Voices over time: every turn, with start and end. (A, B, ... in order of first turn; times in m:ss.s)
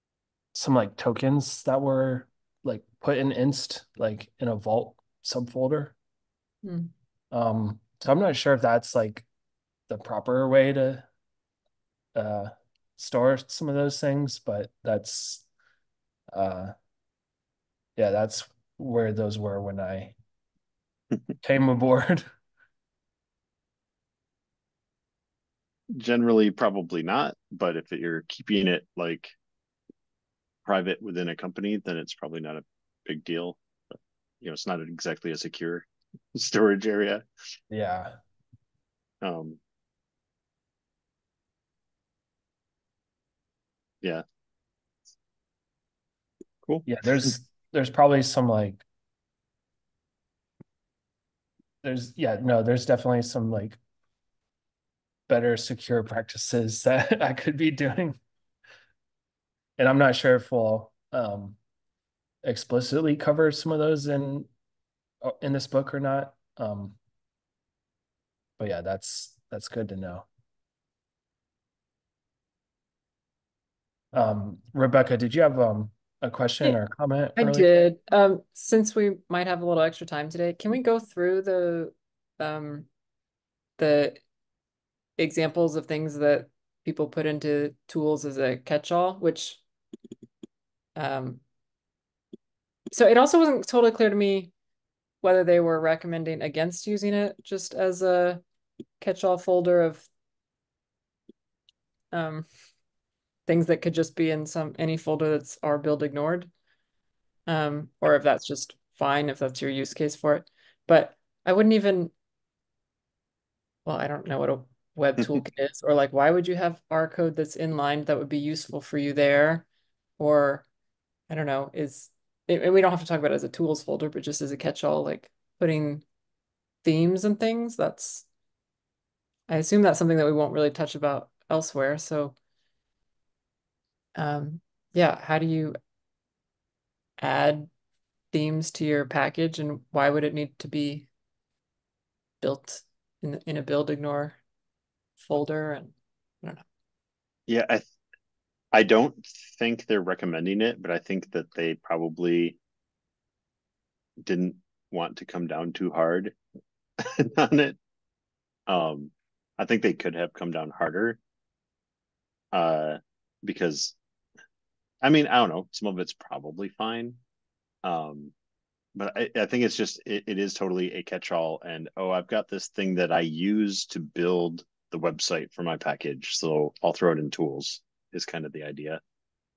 0:00.5-0:05.9 A
0:06.6-0:06.9 B
0:07.3-0:09.3 A
0:09.9-0:11.1 A
0:12.1-0:15.4 A
0:16.3-0:16.7 A
0:18.0-0:20.2 A
0:21.4-0:22.2 A
0:25.9-0:29.3 C
0:30.6-0:37.2 C
0:37.7-0:38.2 A
0:39.2-0:39.6 C
0:46.6-0:47.3 C
0:46.8-0:48.8 A
0:51.8-0:53.8 A
0:55.3-0:58.2 A
0:59.8-1:01.6 A
1:02.4-1:04.5 A
1:05.2-1:07.0 A
1:08.6-1:10.2 A
1:14.1-1:17.7 A
1:17.4-1:22.9 B
1:23.8-1:24.2 B
1:25.2-1:29.6 B
1:31.0-1:31.4 B
1:32.9-1:34.5 B
1:35.2-1:38.4 B
1:39.0-1:40.1 B
1:42.1-1:42.5 B
1:43.5-1:46.5 B
1:47.5-1:52.1 B
1:53.8-1:59.7 B
2:00.2-2:00.6 B
2:01.3-2:06.0 B
2:06.8-2:08.2 B
2:09.5-2:12.3 B
2:14.2-2:15.8 B
2:17.2-2:17.7 B
2:18.3-2:21.1 B
2:22.4-2:24.4 B
2:25.2-2:26.6 B
2:27.5-2:27.8 C
2:28.7-2:32.6 C
2:34.2-2:36.4 C
2:37.0-2:37.8 C
2:38.7-2:41.2 C
2:42.5-2:43.9 C
2:45.0-2:47.2 C
2:47.8-2:48.3 C
2:48.9-2:59.0 C